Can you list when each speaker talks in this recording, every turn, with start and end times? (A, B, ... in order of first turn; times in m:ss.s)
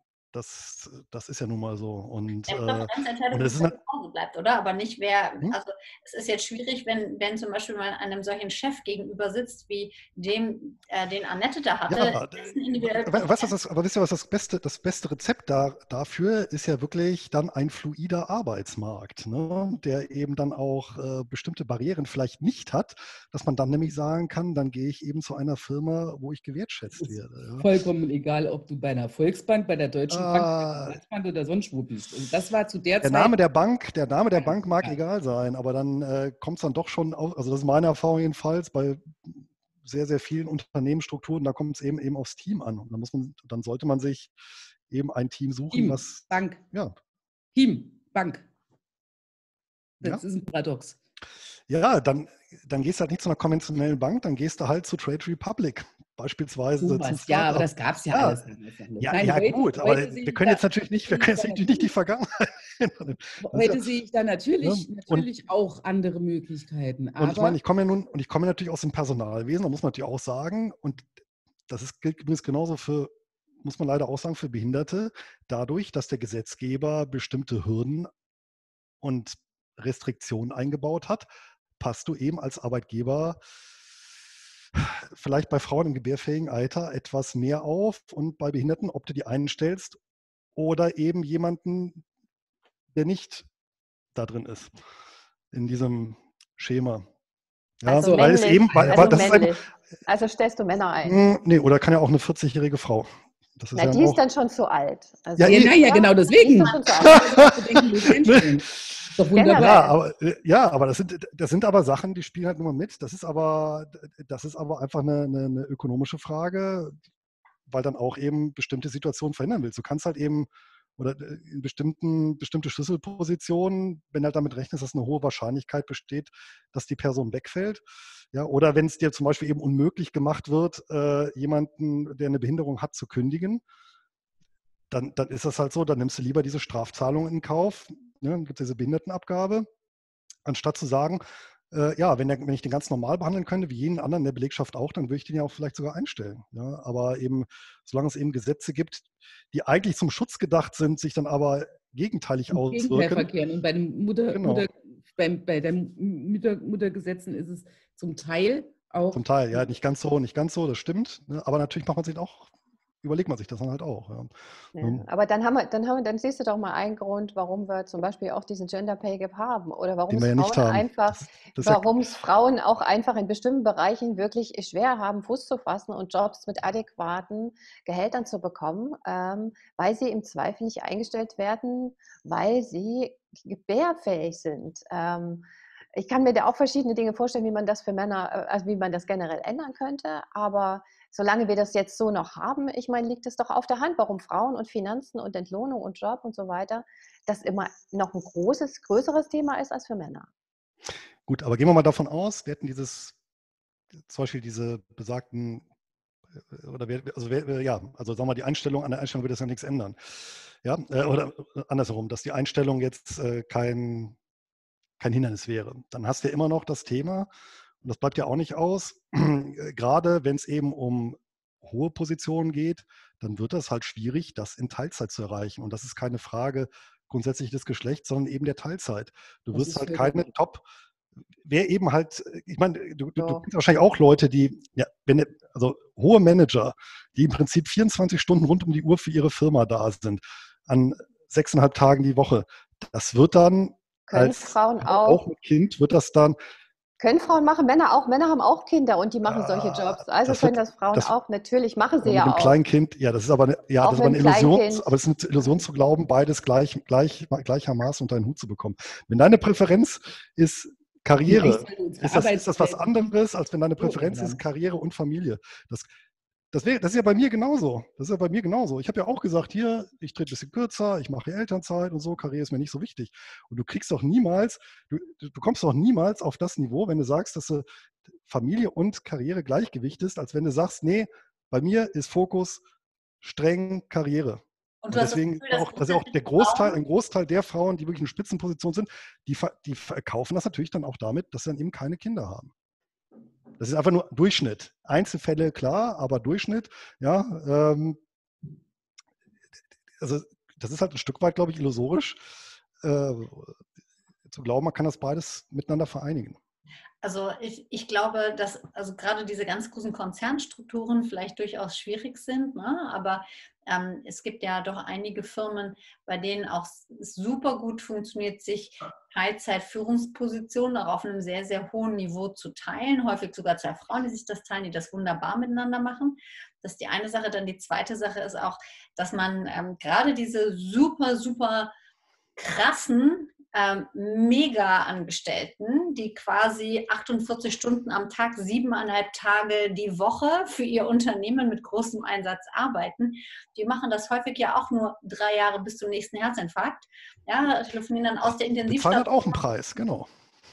0:00.3-0:03.8 A
0:02.5-0:13.5 B
0:11.9-0:27.7 A
0:27.0-0:33.3 C
0:30.1-0:31.0 A
0:33.0-0:44.3 A
0:34.5-0:34.9 C
0:44.9-0:47.0 A
0:45.7-0:46.6 C
0:47.5-0:48.5 C
0:50.0-0:51.0 C
0:51.7-0:58.5 A
0:56.8-1:01.9 C
0:59.0-1:03.8 A
1:03.4-1:07.6 C
1:04.6-1:05.3 A
1:07.2-1:11.1 A
1:11.7-1:18.1 A
1:19.0-1:21.3 A
1:21.8-1:23.4 A
1:24.7-1:30.0 A
1:30.6-1:32.0 A
1:32.9-1:33.5 A
1:34.2-1:34.8 A
1:35.5-1:37.1 A
1:37.8-1:39.6 A
1:37.9-1:41.2 D
1:38.0-1:39.3 C
1:41.0-1:44.2 A
1:43.8-1:48.0 D
1:45.4-1:45.7 A
1:45.4-1:49.8 C
1:47.2-1:57.0 A
1:49.3-1:49.9 D
1:57.7-2:07.8 A
2:08.3-2:13.6 A
2:14.9-2:19.7 A
2:20.4-2:33.3 A
2:32.5-2:39.2 C
2:34.3-2:34.7 A
2:39.1-2:42.5 A
2:43.0-2:45.0 A
2:44.8-3:20.3 D
2:50.1-2:51.9 A
3:21.3-3:23.2 A
3:24.1-3:25.6 A
3:26.5-3:34.2 A
3:35.0-3:37.3 A
3:37.8-3:50.6 A
3:49.5-3:50.4 C
3:51.4-4:06.4 A
3:53.2-3:53.4 D
4:04.1-4:05.2 D
4:07.0-4:12.6 D
4:09.3-4:11.1 A
4:12.0-4:25.9 A
4:13.8-4:14.9 D
4:21.3-4:23.1 C
4:23.8-4:24.4 C
4:26.5-4:37.6 A
4:38.3-4:42.6 A
4:43.2-4:52.5 A
4:44.8-4:46.8 B
4:53.6-4:58.0 A
5:00.0-5:02.2 A
5:02.8-5:03.6 A
5:04.3-5:06.4 A
5:07.0-5:31.7 B
5:32.4-5:49.4 B
5:48.7-5:50.1 A